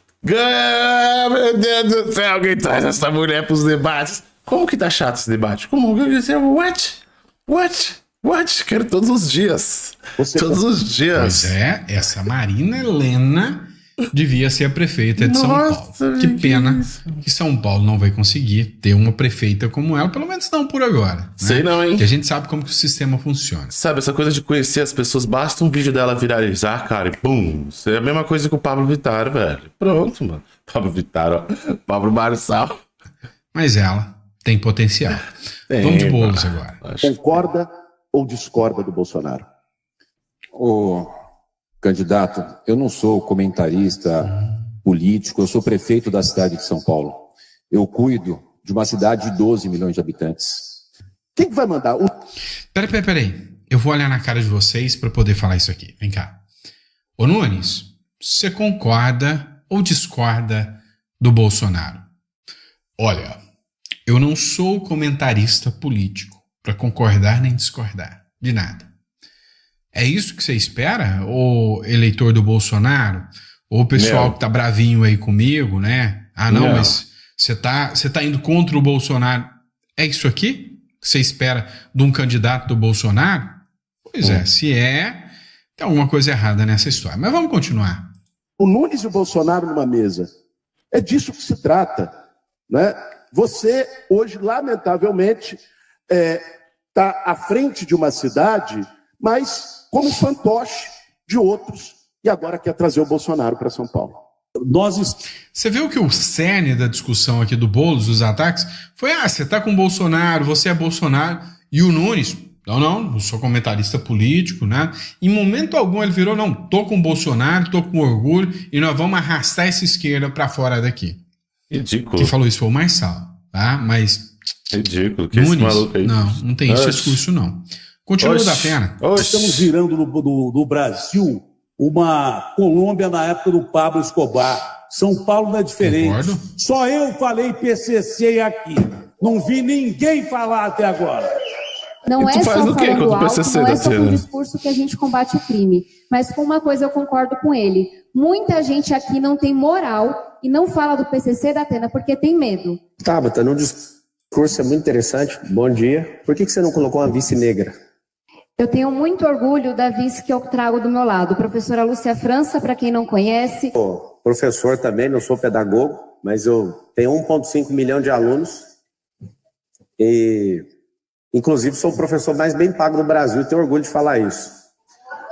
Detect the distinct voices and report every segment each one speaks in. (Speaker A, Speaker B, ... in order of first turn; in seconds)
Speaker A: 0.2-11.5, 15.2-17.2, 21.4-22.1, 23.7-32.8, 35.7-37.1, 73.9-74.3, 76.5-77.0, 121.7-122.3, 124.7-126.1, 126.7-127.2, 128.2-129.7, 142.2-144.2
Speaker B: 10.2-10.6, 37.0-39.4, 51.4-52.1, 88.6-90.3, 90.9-92.1, 92.7-96.4, 96.9-104.1
Speaker C: 11.1-23.7, 33.5-36.8, 52.7-56.4, 57.2-62.0, 63.0-63.4, 64.0-68.9, 69.9-83.6, 84.1-88.1, 105.5-121.2, 122.2-124.3, 125.3-129.0, 135.8-136.4
Speaker D: 40.5-41.1, 41.8-44.3, 44.8-50.6
Speaker E: 104.7-105.1, 129.1-141.2
Speaker F: 142.1-152.8, 158.6-163.7
Speaker G: 153.0-157.7, 163.7-168.6, 170.0-170.6, 171.3-174.6